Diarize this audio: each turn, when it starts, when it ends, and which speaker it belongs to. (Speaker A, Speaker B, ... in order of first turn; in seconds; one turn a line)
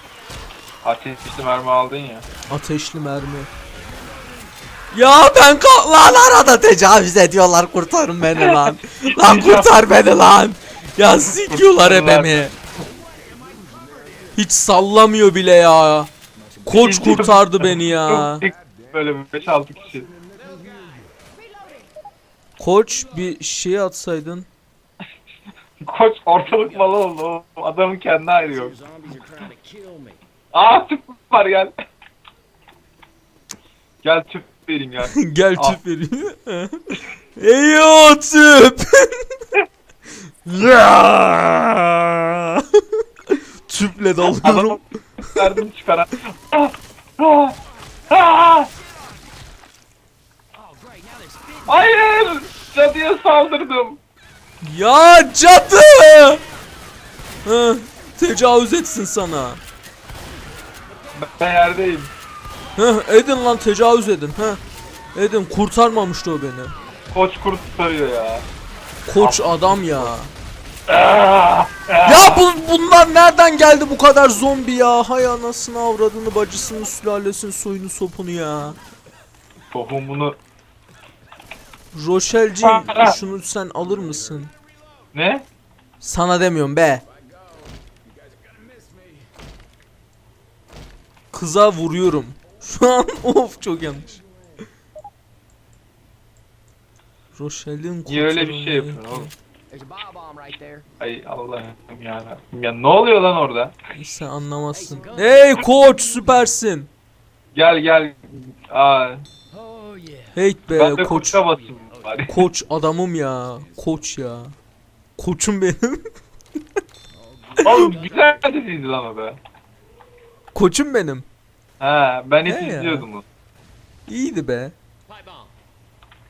Speaker A: 0.8-2.2
Speaker B: 2.5-3.5
Speaker B: 4.9-12.5
Speaker A: 8.4-9.8
Speaker A: 11.3-12.4
Speaker C: 13.3-14.3
Speaker B: 14.3-16.1
Speaker B: 16.6-18.4
Speaker A: 16.7-20.1
Speaker C: 20.3-21.1
Speaker B: 22.6-24.5
Speaker A: 25.8-28.7
Speaker C: 28.5-30.2
Speaker A: 30.5-31.7
Speaker A: 34.0-35.8
Speaker B: 35.1-36.8
Speaker B: 37.4-39.2
Speaker B: 40.5-44.8
Speaker A: 44.2-47.5
Speaker A: 48.1-48.7
Speaker C: 50.6-51.7
Speaker A: 51.6-54.0
Speaker B: 54.6-56.4
Speaker B: 57.4-59.6
Speaker A: 61.1-62.1
Speaker B: 62.8-64.6
Speaker B: 65.1-66.7
Speaker A: 67.1-68.5
Speaker B: 69.1-70.3
Speaker A: 69.2-70.1
Speaker A: 70.9-72.4
Speaker B: 72.0-78.8
Speaker A: 79.7-80.4
Speaker B: 81.9-84.5
Speaker A: 82.6-83.2
Speaker A: 85.1-85.5
Speaker B: 86.0-87.0
Speaker C: 88.8-89.1
Speaker B: 91.3-94.2
Speaker B: 97.3-99.3
Speaker A: 98.1-99.3
Speaker C: 99.7-100.9
Speaker A: 101.0-103.8
Speaker B: 104.0-106.9
Speaker C: 104.8-105.7
Speaker A: 107.5-109.2
Speaker C: 109.5-110.3
Speaker B: 110.3-111.4
Speaker A: 110.7-112.4
Speaker B: 112.3-114.5
Speaker B: 115.2-116.1
Speaker C: 117.3-118.2
Speaker B: 117.6-117.9
Speaker A: 117.6-119.4
Speaker B: 120.5-121.2
Speaker A: 121.8-123.2
Speaker B: 122.5-123.0
Speaker B: 124.1-124.7
Speaker C: 125.1-125.5